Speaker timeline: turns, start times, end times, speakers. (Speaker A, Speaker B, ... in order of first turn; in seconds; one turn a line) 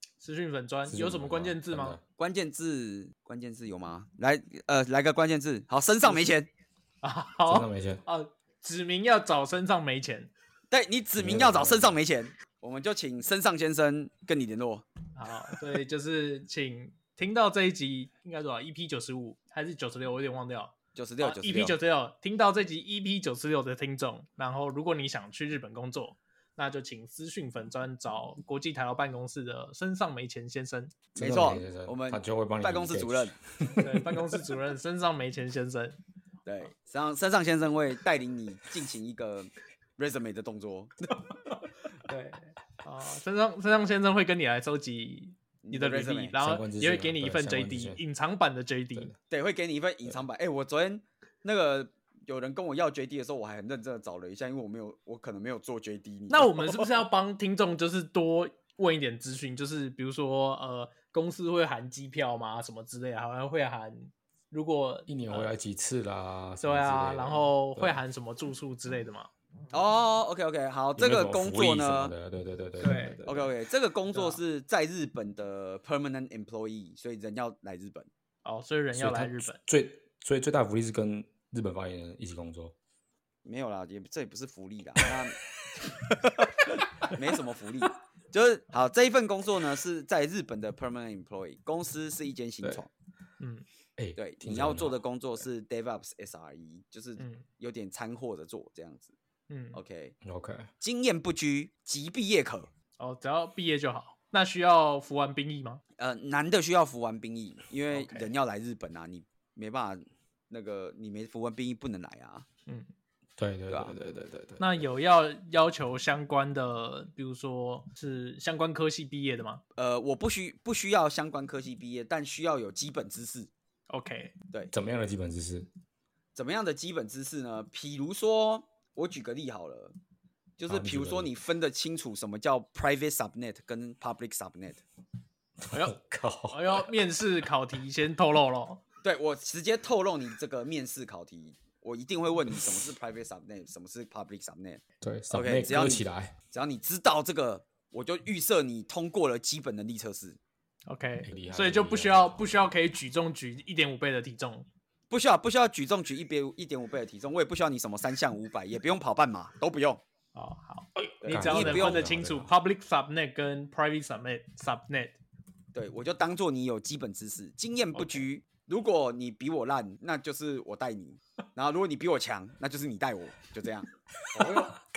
Speaker A: 0.2-2.0
Speaker B: 0.9-2.0
Speaker C: 2.2-6.5
Speaker A: 7.0-10.3
Speaker B: 7.5-8.0
Speaker C: 10.7-14.8
Speaker B: 11.2-11.9
Speaker A: 15.2-30.9
Speaker C: 20.9-21.8
Speaker C: 31.1-33.3
Speaker B: 31.1-34.2
Speaker A: 33.8-36.0
Speaker C: 36.5-41.2
Speaker A: 41.5-49.1
Speaker C: 45.6-46.4
Speaker B: 46.4-48.0
Speaker C: 49.3-57.0
Speaker A: 56.3-65.5
Speaker B: 65.1-68.0
Speaker A: 66.6-69.3
Speaker C: 69.7-72.1
Speaker B: 71.0-73.5
Speaker A: 72.8-73.2
Speaker C: 73.2-78.1
Speaker A: 74.1-74.4
Speaker A: 78.4-79.6
Speaker B: 78.9-82.7
Speaker C: 83.4-92.9
Speaker A: 93.4-93.7
Speaker B: 94.0-95.0
Speaker C: 94.2-99.1
Speaker A: 97.2-97.4
Speaker A: 99.5-99.8
Speaker C: 99.7-100.2
Speaker B: 100.2-100.7
Speaker C: 100.8-102.7
Speaker A: 103.0-105.8
Speaker C: 106.0-112.5
Speaker A: 107.9-108.3
Speaker B: 113.4-114.8
Speaker C: 113.7-113.9
Speaker A: 114.6-119.6
Speaker C: 119.8-123.5
Speaker A: 123.9-124.3
Speaker B: 124.7-125.7
Speaker C: 126.3-129.9
Speaker C: 130.6-134.8
Speaker B: 130.7-131.3
Speaker B: 135.6-136.9
Speaker A: 136.5-138.8
Speaker C: 139.0-150.4
Speaker B: 145.0-146.3
Speaker A: 150.9-154.7
Speaker B: 151.2-152.6
Speaker C: 155.1-160.0
Speaker A: 160.3-165.2
Speaker C: 161.2-162.1
Speaker B: 161.2-162.5
Speaker C: 165.7-174.7
Speaker A: 167.9-168.2
Speaker A: 174.4-174.7
Speaker B: 174.4-174.6